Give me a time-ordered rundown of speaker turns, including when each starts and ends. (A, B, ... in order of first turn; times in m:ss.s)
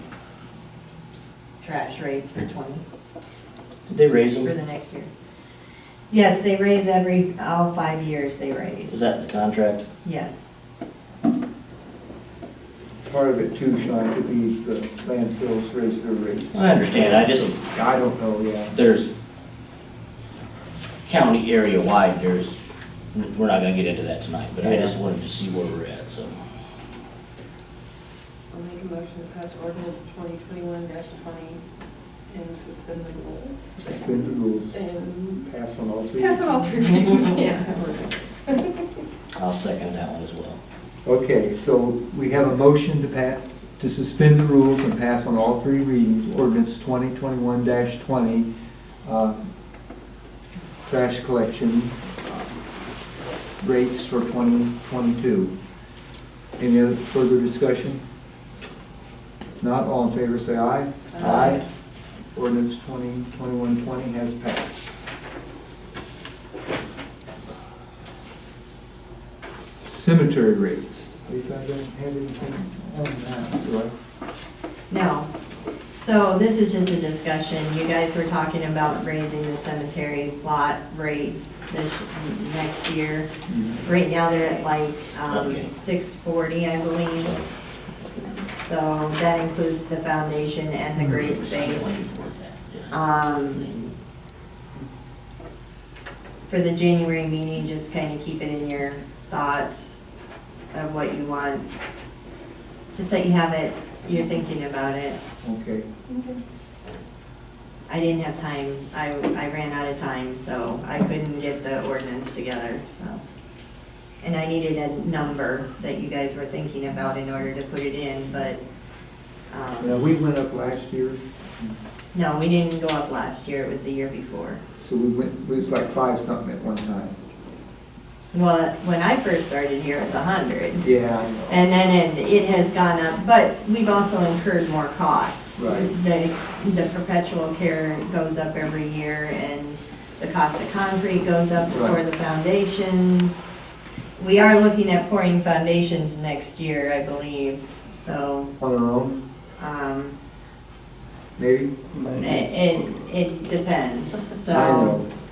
0:01.6-0:02.8 A
0:03.9-0:04.5 B
0:04.4-0:05.1 A
0:06.1-0:09.0 A
0:08.9-0:09.8 B
0:10.0-0:10.5 A
0:13.1-0:18.7 C
0:16.5-0:17.6 B
0:18.7-0:19.1 B
0:21.1-0:26.4 B
0:24.6-0:25.0 C
0:28.5-0:31.6 D
0:32.3-0:34.0 D
0:33.8-0:34.7 C
0:34.7-0:35.4 D
0:35.4-0:36.4 C
0:36.2-0:38.8 D
0:39.4-0:40.6 B
0:41.0-0:48.5 C
0:49.0-0:49.5 C
0:50.8-0:52.5 C
0:53.6-0:55.5 C
0:56.6-0:58.0 C
0:59.6-1:01.6 C
1:01.2-1:01.6 B
1:01.3-1:01.5 D
1:02.4-1:04.7 C
1:09.9-1:13.9 C
1:14.9-1:15.3 A
1:15.9-1:23.3 A
1:23.5-1:23.8 C
1:23.8-1:27.4 A
1:25.3-1:25.7 B
1:27.2-1:27.5 B
1:28.1-1:32.0 A
1:31.2-1:33.9 B
1:32.9-1:33.7 A
1:36.5-1:40.0 A
1:40.7-1:41.7 A
1:42.9-1:45.2 A
1:45.4-1:45.9 C
1:47.9-1:53.2 A
1:54.2-1:58.6 A
1:59.5-2:00.0 A
1:59.8-2:01.7 C
2:02.1-2:04.6 A
2:04.8-2:07.2 C
2:08.3-2:10.9 A
2:10.8-2:11.4 C
2:11.5-2:23.6 A
2:15.6-2:15.9 C
2:21.7-2:22.0 C
2:24.2-2:28.5 A
2:28.6-2:29.2 C
2:29.6-2:30.2 A
2:31.4-2:31.8 C
2:32.2-2:35.0 A
2:34.5-2:35.1 C